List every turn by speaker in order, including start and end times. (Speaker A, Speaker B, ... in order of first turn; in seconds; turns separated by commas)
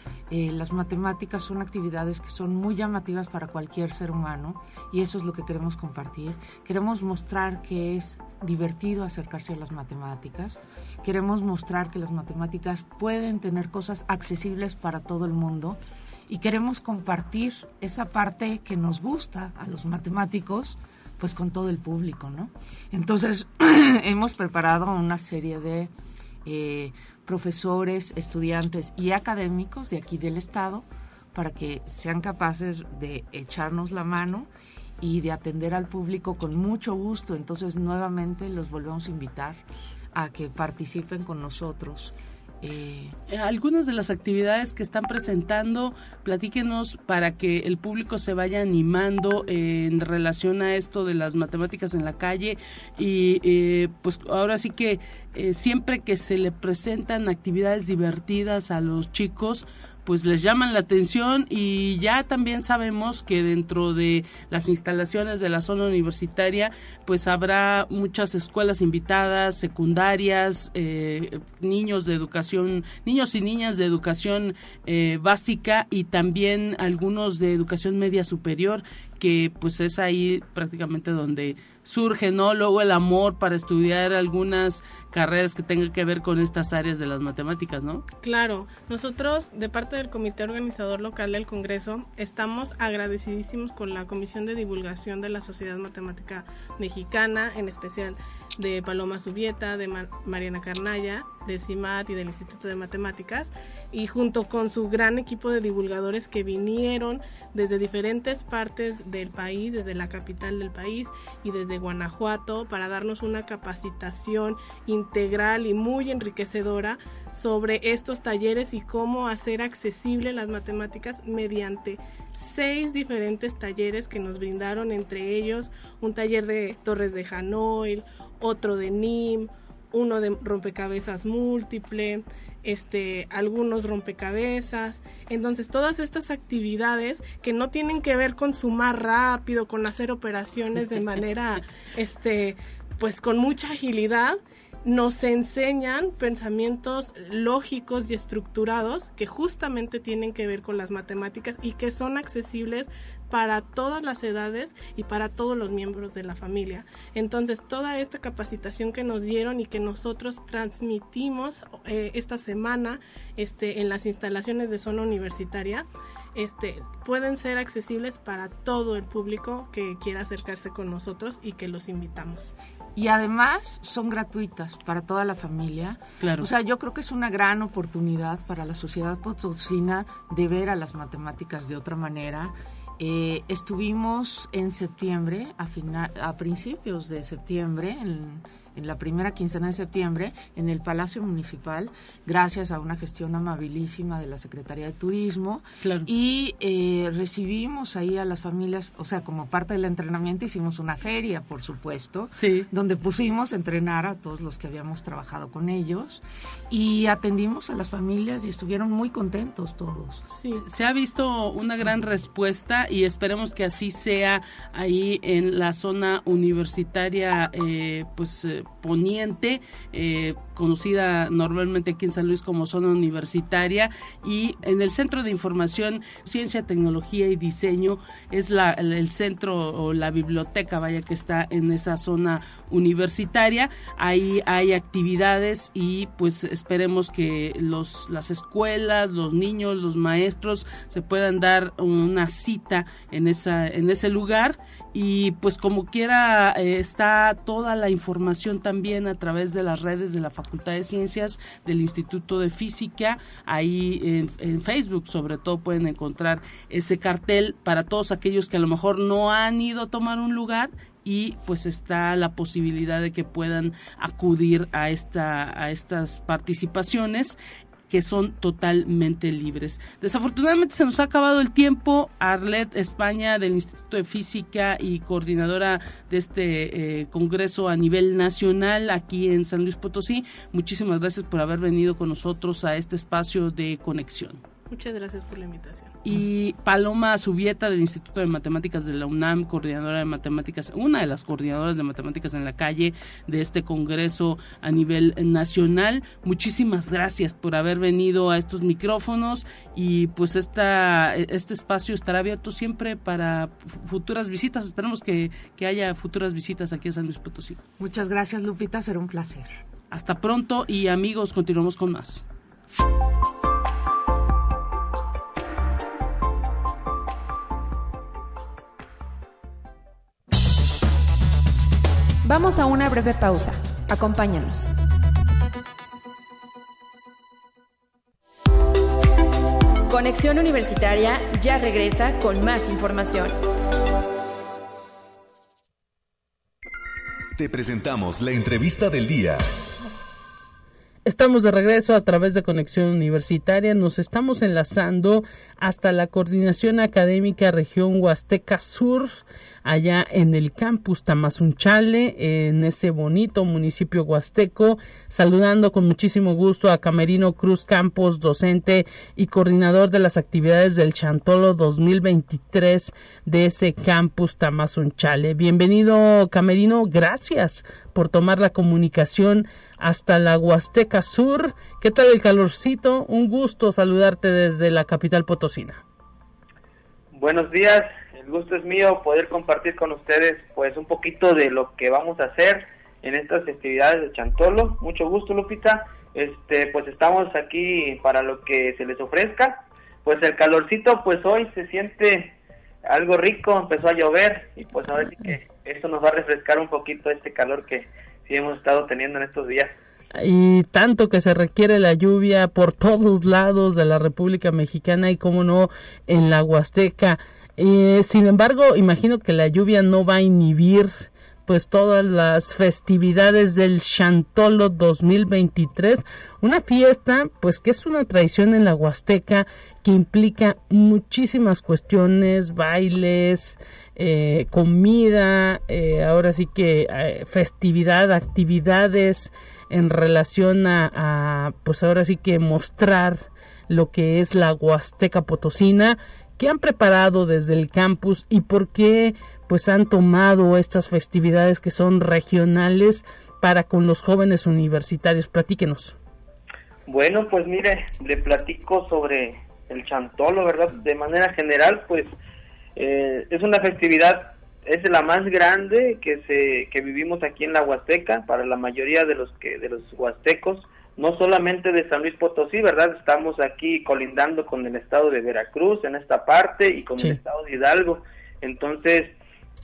Speaker A: 0.3-25.9, Speaker A: 26.4-34.5, Speaker A: 35.0-39.6, Speaker A: 40.1-43.2, Speaker B: 43.3-88.0, Speaker C: 88.2-172.5, Speaker A: 172.9-210.2, Speaker B: 176.2-176.5, Speaker B: 195.8-196.1, Speaker B: 202.3-202.7, Speaker C: 210.3-210.6, Speaker B: 210.6-267.4, Speaker B: 267.9-284.4, Speaker C: 284.7-285.9, Speaker B: 286.0-307.6, Speaker A: 307.8-309.5, Speaker B: 309.9-312.2, Speaker D: 322.2-324.7, Speaker D: 329.9-333.4, Speaker E: 337.4-339.4, Speaker B: 341.0-375.8, Speaker F: 377.1-392.3, Speaker F: 392.9-399.7, Speaker B: 400.1-445.9, Speaker F: 446.9-452.1, Speaker F: 452.8-469.1